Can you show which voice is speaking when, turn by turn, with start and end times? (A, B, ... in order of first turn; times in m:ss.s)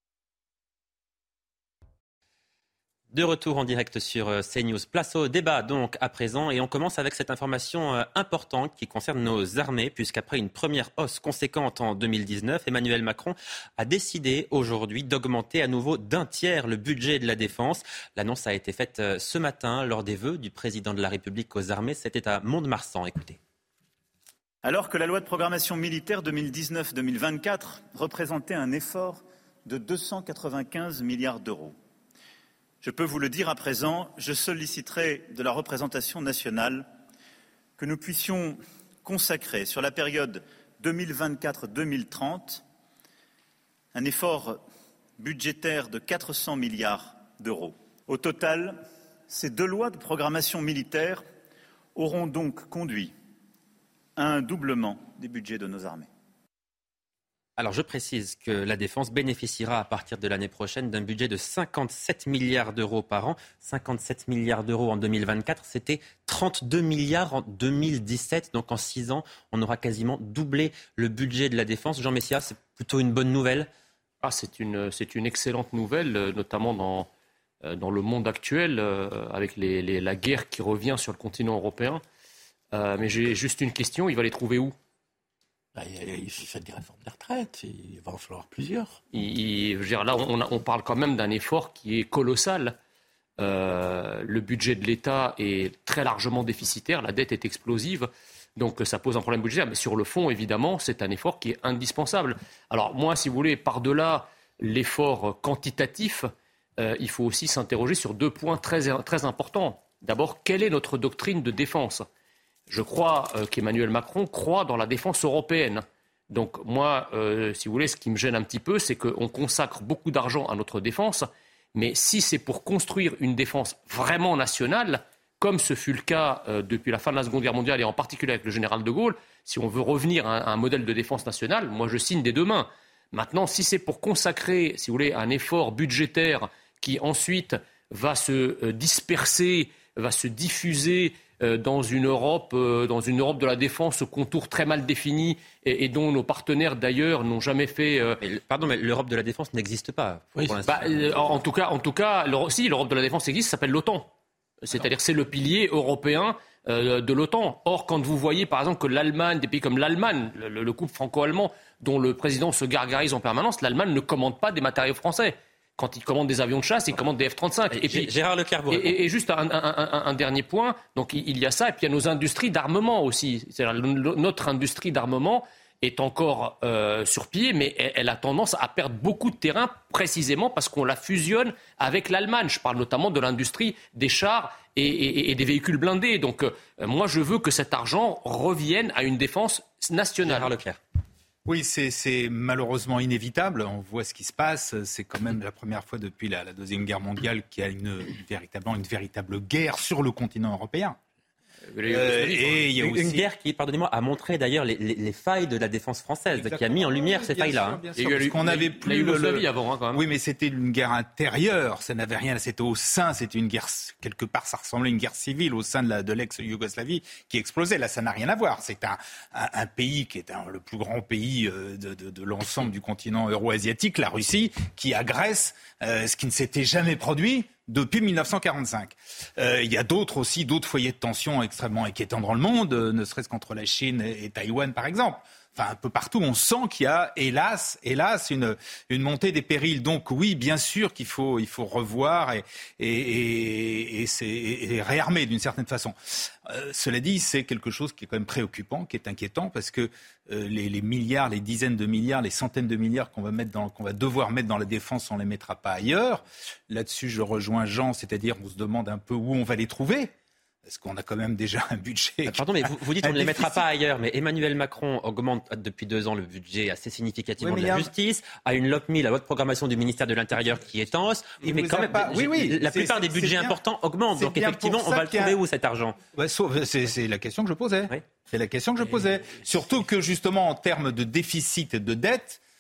0:03.1-0:23.4 A
0:24.6-0:31.8 B
0:32.8-0:36.9 B
0:37.8-0:42.6 B
0:43.9-0:44.6 B
0:45.2-0:51.2 B
0:51.9-0:53.1 B
0:54.2-0:56.1 B
0:57.6-1:13.7 A
1:14.2-1:17.1 C
1:17.6-1:22.0 C
1:22.7-1:24.8 C
1:25.8-1:29.0 D
1:29.1-1:32.8 C
1:33.4-1:52.1 C
1:52.7-2:28.2 C
2:28.2-2:31.4 A
2:30.4-2:30.7 D
2:30.6-2:34.1 C
2:34.6-2:48.1 C
2:47.7-2:49.0 A
2:48.7-3:10.5 C
3:10.2-3:10.8 A
3:11.4-3:21.0 E
3:21.7-3:22.8 C
3:21.9-3:23.2 E
3:22.8-3:27.8 A
3:26.3-4:20.1 E
3:28.0-3:30.0 C
4:20.6-4:23.7 E
4:22.3-4:36.0 A
4:27.4-4:27.9 E
4:31.4-4:33.6 E
4:34.2-4:35.4 E
4:36.1-4:42.4 E